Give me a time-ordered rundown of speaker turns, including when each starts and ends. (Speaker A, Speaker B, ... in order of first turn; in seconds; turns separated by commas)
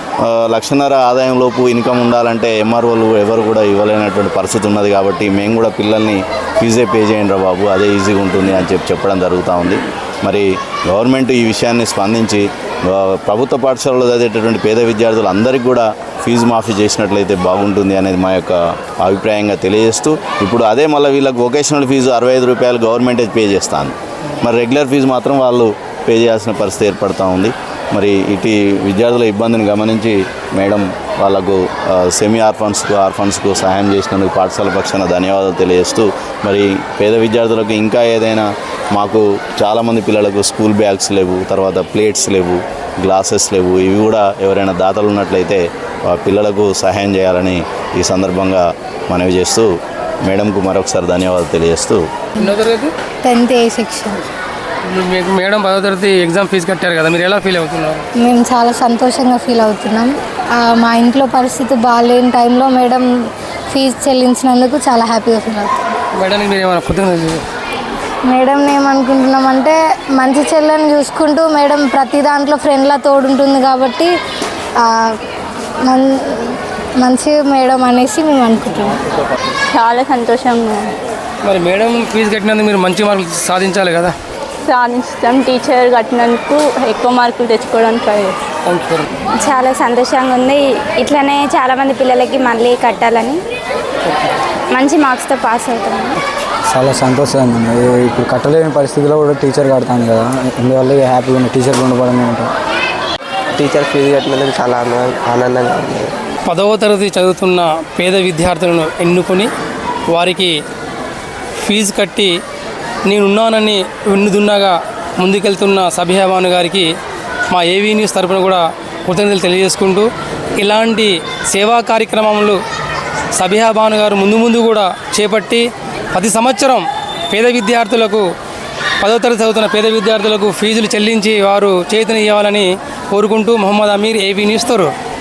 Speaker A: 0.2-49.7, Speaker A: 50.2-52.0, Speaker B: 52.4-52.9, Speaker C: 53.2-54.2, Speaker B: 54.9-58.0, Speaker C: 58.2-63.1, Speaker C: 63.7-65.7, Speaker B: 66.2-67.4, Speaker C: 68.3-74.1, Speaker C: 74.8-75.1, Speaker C: 75.9-79.0, Speaker D: 79.7-80.9, Speaker B: 81.5-84.2, Speaker D: 84.7-88.4, Speaker B: 88.7-89.1, Speaker D: 89.3-93.4, Speaker D: 94.7-96.2, Speaker E: 96.7-102.5, Speaker F: 103.6-106.1, Speaker B: 106.5-109.5, Speaker B: 110.1-110.5, Speaker B: 111.6-112.3, Speaker B: 113.1-116.9, Speaker B: 117.5-120.1, Speaker B: 120.6-122.6, Speaker B: 123.3-128.3, Speaker B: 129.0-134.9